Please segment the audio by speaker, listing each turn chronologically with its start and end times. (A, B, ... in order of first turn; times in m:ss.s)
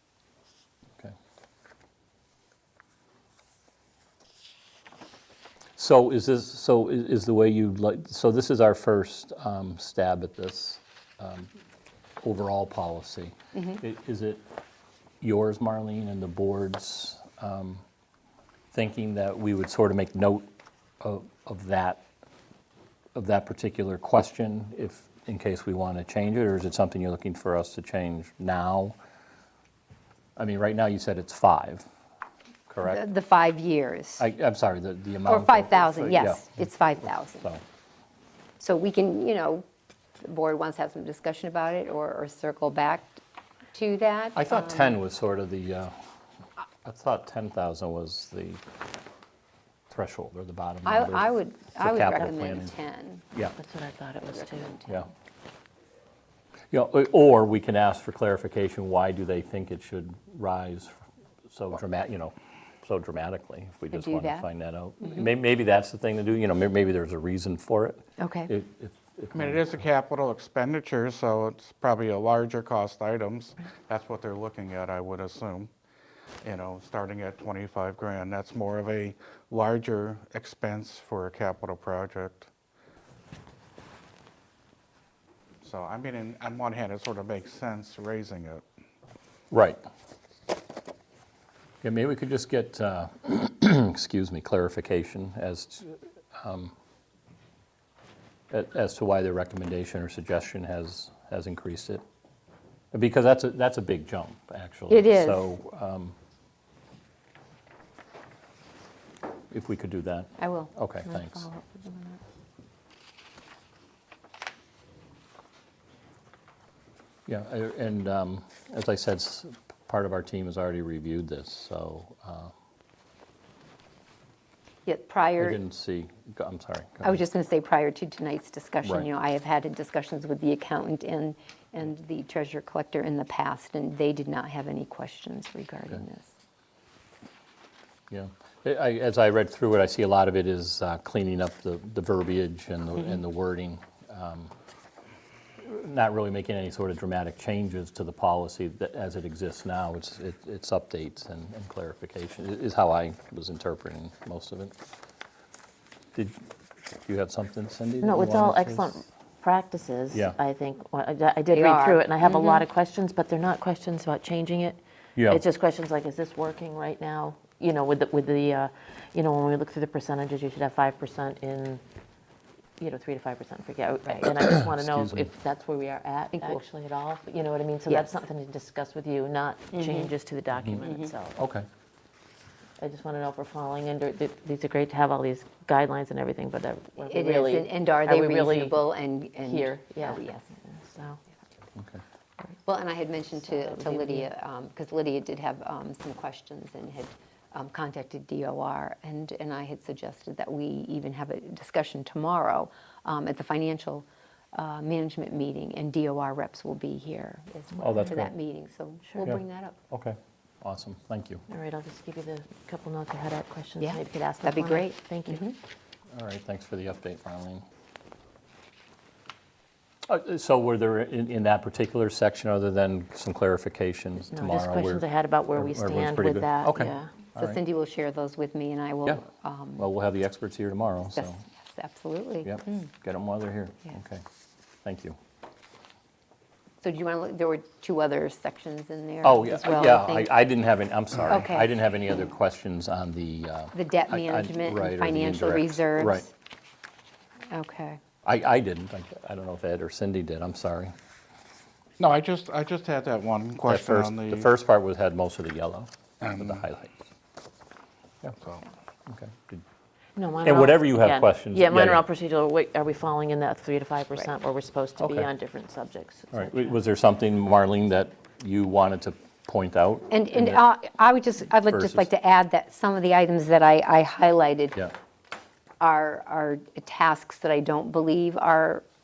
0:05.8-0:11.5 A
0:12.2-0:14.4 A
0:15.2-0:17.8 A
0:18.7-0:20.5 A
0:21.0-0:22.1 A
0:23.2-0:29.0 A
0:30.4-0:31.9 A
0:32.7-0:33.0 A
0:32.8-0:34.2 B
0:34.2-0:37.6 A
0:35.3-0:37.5 B
0:38.6-0:39.6 B
0:40.2-0:43.2 B
0:43.7-0:45.0 B
0:44.4-0:46.0 A
0:46.8-0:48.6 A
0:49.9-0:52.7 A
0:50.8-0:53.2 B
0:53.6-0:54.8 C
0:54.4-0:54.9 B
0:56.7-1:00.9 A
1:01.5-1:09.8 A
1:03.9-1:04.5 B
1:08.2-1:08.5 B
1:09.3-1:15.7 D
1:16.4-1:22.5 D
1:25.6-1:28.6 D
1:29.5-1:29.8 A
1:31.8-1:36.7 A
1:38.5-1:42.0 A
1:42.9-1:46.2 A
1:44.9-1:45.5 B
1:49.5-1:51.5 A
1:50.4-1:52.2 B
1:57.3-2:02.5 A
2:04.9-2:05.6 B
2:05.4-2:07.2 A
2:07.0-2:16.3 B
2:18.1-2:24.5 A
2:25.6-2:34.8 A
2:36.2-2:36.4 A
2:37.0-2:39.0 A
2:38.0-2:51.8 C
2:40.1-2:40.4 A
2:41.5-2:42.6 B
2:45.2-2:45.4 A
2:52.8-3:01.4 C
2:54.7-2:55.3 A
2:56.3-2:56.6 B
2:57.9-2:58.2 B
2:59.7-3:00.1 B
3:00.8-3:01.1 B
3:01.4-3:01.7 A
3:02.8-3:08.9 C
3:07.1-3:10.5 B
3:09.4-3:11.2 C
3:11.8-3:12.0 A
3:12.6-3:29.8 B
3:13.4-3:14.3 C
3:27.8-3:28.3 A
3:29.1-3:29.3 C
3:29.9-3:31.4 A
3:31.5-3:35.4 C
3:33.8-3:35.6 B
3:36.1-3:37.6 A
3:40.1-3:47.6 A
3:44.3-3:47.1 C
3:47.3-3:49.8 B
3:49.8-3:51.4 A
3:51.1-3:52.8 B
3:52.4-3:54.2 A
3:54.8-3:55.2 A
3:56.8-4:00.3 B
3:59.2-4:06.2 A
4:01.3-4:01.7 B
4:03.7-4:06.3 B
4:07.5-4:08.0 B
4:08.2-4:10.9 A
4:12.0-4:14.5 D
4:13.6-4:17.0 A
4:16.2-4:16.6 D
4:18.4-4:18.6 D
4:19.1-4:19.6 A
4:20.2-4:26.7 C
4:20.4-4:22.0 A
4:25.0-4:25.3 A
4:26.3-4:30.6 A
4:30.1-4:34.9 B
4:31.7-4:32.1 A
4:35.8-4:38.8 B